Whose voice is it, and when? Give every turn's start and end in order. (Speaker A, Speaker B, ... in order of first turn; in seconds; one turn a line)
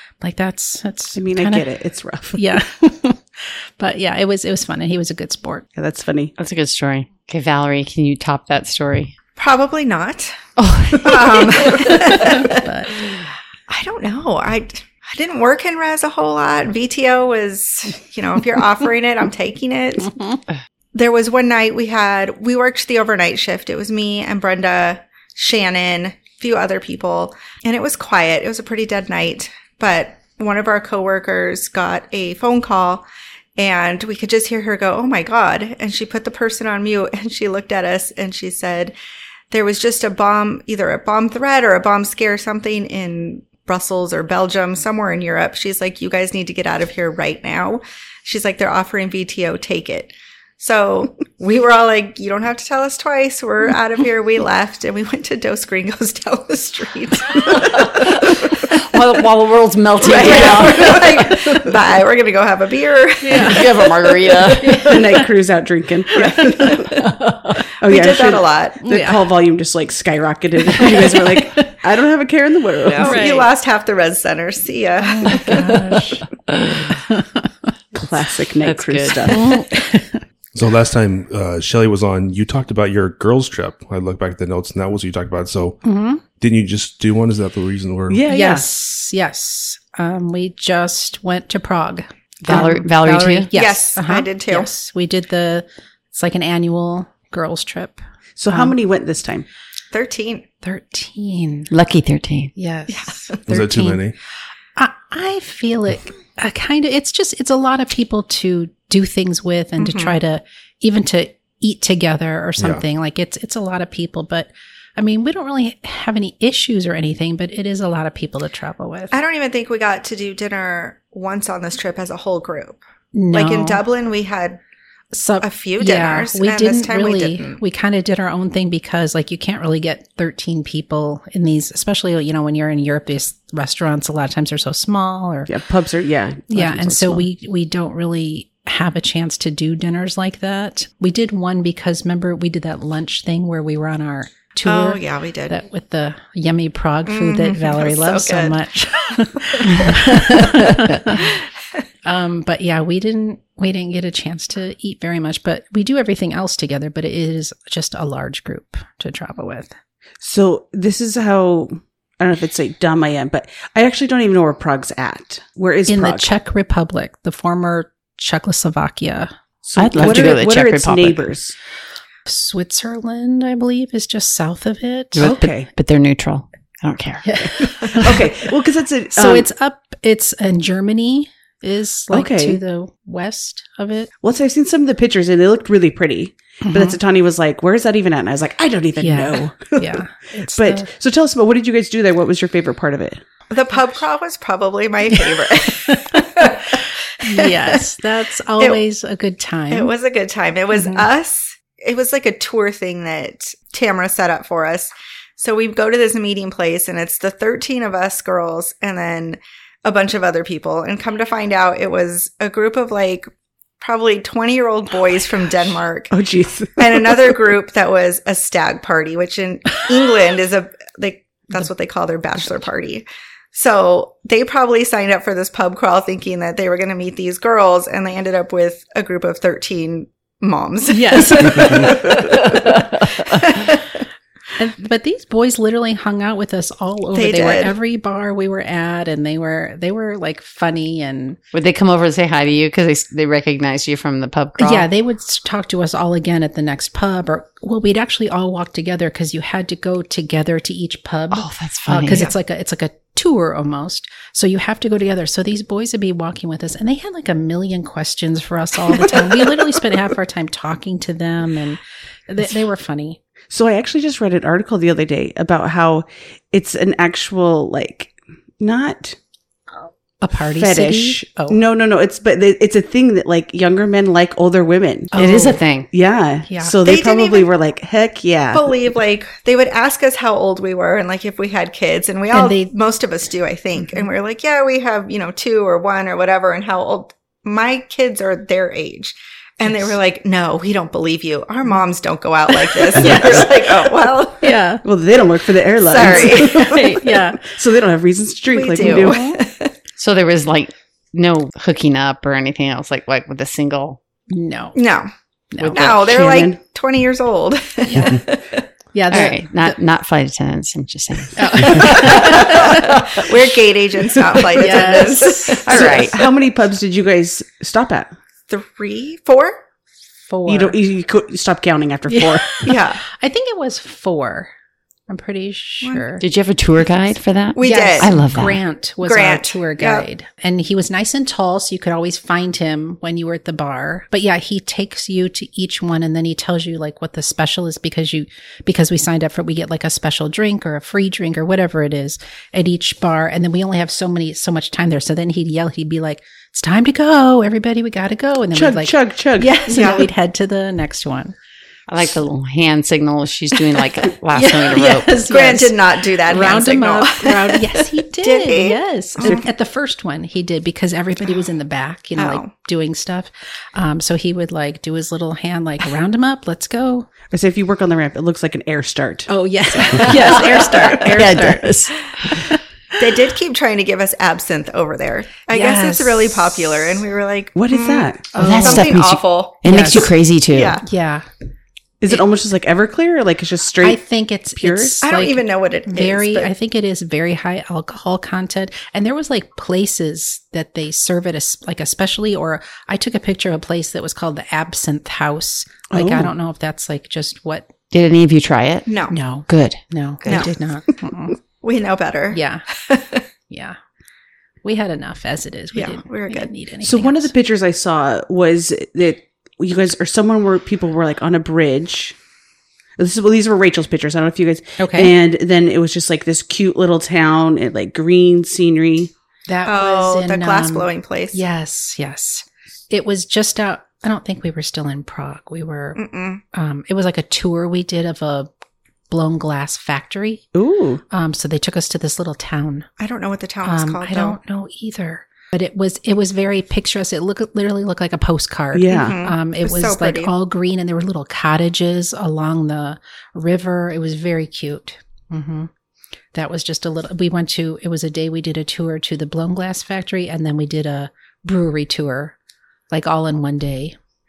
Speaker A: 0.2-1.7
Speaker B: 1.1-2.6
Speaker A: 2.3-5.7
Speaker B: 5.8-6.4
Speaker C: 6.4-9.1
Speaker D: 9.4-10.4
Speaker C: 10.6-11.6
Speaker D: 11.0-12.7
Speaker A: 11.1-13.0
Speaker D: 13.7-20.1
Speaker A: 20.1-20.4
Speaker D: 20.9-33.0
Speaker D: 33.6-39.0
Speaker D: 39.5-58.8
Speaker C: 57.6-61.6
Speaker D: 60.0-64.8
Speaker A: 63.2-63.7
Speaker C: 63.3-64.9
Speaker A: 64.6-65.3
Speaker B: 64.8-66.9
Speaker D: 66.1-67.2
Speaker B: 67.8-73.2
Speaker D: 67.9-68.8
Speaker A: 68.8-69.3
Speaker A: 70.7-71.4
Speaker D: 72.8-75.7
Speaker A: 73.0-73.5
Speaker C: 73.0-73.4
Speaker A: 75.0-77.5
Speaker C: 76.5-76.8
Speaker B: 78.0-79.5
Speaker C: 78.7-79.6
Speaker A: 79.3-80.2
Speaker E: 80.5-85.8
Speaker A: 85.8-86.2
Speaker E: 86.4-88.2
Speaker B: 88.1-88.7
Speaker A: 88.3-98.7
Speaker C: 92.4-93.5
Speaker D: 93.5-94.7
Speaker B: 98.4-99.5
Speaker D: 99.9-100.5
Speaker A: 100.6-101.7
Speaker C: 101.7-102.5
Speaker A: 102.5-104.0
Speaker D: 102.9-103.4
Speaker E: 103.5-104.2
Speaker A: 104.8-119.2
Speaker D: 109.8-110.2
Speaker D: 119.1-122.8
Speaker A: 123.1-123.8
Speaker D: 123.3-124.6
Speaker A: 125.1-135.5
Speaker D: 125.4-127.6
Speaker B: 135.5-137.3
Speaker A: 136.5-151.3
Speaker D: 144.7-145.6
Speaker D: 147.1-148.6
Speaker D: 149.5-150.4
Speaker A: 152.1-159.7
Speaker B: 160.2-166.3
Speaker A: 165.9-169.3
Speaker B: 169.7-171.6
Speaker C: 169.8-171.2
Speaker A: 169.9-170.4
Speaker A: 172.3-175.3
Speaker C: 175.1-177.4
Speaker B: 175.2-175.7
Speaker A: 177.2-178.2
Speaker B: 177.9-179.5
Speaker A: 179.2-184.1
Speaker B: 182.1-182.6
Speaker B: 184.2-193.2
Speaker A: 186.6-187.0
Speaker A: 189.0-190.9
Speaker D: 193.5-197.8
Speaker A: 195.9-199.9
Speaker D: 199.7-213.3
Speaker A: 200.7-201.1
Speaker D: 213.8-216.1
Speaker B: 216.1-217.3
Speaker D: 216.8-234.0
Speaker A: 230.9-232.5
Speaker A: 234.6-241.4
Speaker D: 237.1-237.7
Speaker C: 241.5-244.9
Speaker A: 244.6-263.2
Speaker C: 251.3-252.3
Speaker B: 263.5-269.2
Speaker A: 270.2-271.6
Speaker B: 270.5-275.2
Speaker A: 275.1-275.6
Speaker C: 275.1-275.9
Speaker B: 275.9-278.7
Speaker A: 276.5-276.8
Speaker D: 276.8-277.5
Speaker D: 278.5-294.6
Speaker A: 282.3-282.7
Speaker A: 283.8-284.1
Speaker A: 289.6-290.0
Speaker A: 292.9-293.6
Speaker B: 293.0-293.5
Speaker A: 294.4-294.8
Speaker B: 294.8-299.2
Speaker D: 295.8-297.0
Speaker A: 296.0-297.4
Speaker D: 298.5-299.7
Speaker A: 298.8-299.4
Speaker C: 300.0-304.0
Speaker A: 304.3-304.8
Speaker D: 304.8-305.1
Speaker A: 305.5-305.9
Speaker C: 305.6-305.9
Speaker D: 305.7-308.6
Speaker B: 305.8-306.6
Speaker A: 307.9-308.2
Speaker A: 308.9-309.8
Speaker C: 309.1-313.2
Speaker A: 311.4-313.1
Speaker D: 311.8-316.1
Speaker A: 314.4-316.0
Speaker B: 315.6-318.1
Speaker C: 315.7-316.1
Speaker D: 318.5-319.6
Speaker A: 320.3-320.8
Speaker B: 320.5-322.8
Speaker A: 322.1-324.5
Speaker D: 322.6-323.0
Speaker A: 325.1-326.2
Speaker C: 326.2-328.6
Speaker D: 327.6-328.1
Speaker A: 327.6-351.4
Speaker D: 329.0-330.1
Speaker B: 348.5-349.7
Speaker D: 349.7-350.1
Speaker C: 351.9-355.2
Speaker A: 354.3-367.1
Speaker D: 355.1-359.4
Speaker D: 362.2-362.5
Speaker B: 367.3-369.3
Speaker A: 369.3-373.2
Speaker D: 370.1-371.2
Speaker C: 370.1-372.1
Speaker D: 373.0-380.9
Speaker A: 375.5-377.0
Speaker B: 377.6-378.3
Speaker A: 378.3-378.9
Speaker C: 378.4-380.8
Speaker A: 379.6-380.2
Speaker A: 380.8-381.3
Speaker B: 382.0-384.0
Speaker A: 383.8-397.7
Speaker B: 384.5-385.0
Speaker D: 385.0-386.5
Speaker B: 395.9-396.3
Speaker C: 397.9-398.9
Speaker D: 398.9-399.2
Speaker A: 399.1-401.4
Speaker C: 399.5-400.5
Speaker D: 400.3-400.6
Speaker D: 401.6-403.2
Speaker A: 402.3-402.6
Speaker A: 403.5-403.8
Speaker A: 404.6-407.3
Speaker D: 405.7-406.5
Speaker B: 406.8-412.2
Speaker B: 413.0-419.1
Speaker A: 414.8-415.1
Speaker A: 419.5-426.0
Speaker D: 419.7-421.4
Speaker D: 426.0-426.4
Speaker A: 426.5-428.5
Speaker A: 429.1-430.5
Speaker B: 430.5-431.0
Speaker A: 431.1-432.9
Speaker D: 433.0-434.4
Speaker A: 433.6-445.7
Speaker B: 438.7-439.2
Speaker D: 438.9-440.3
Speaker A: 446.3-452.4
Speaker A: 452.9-454.0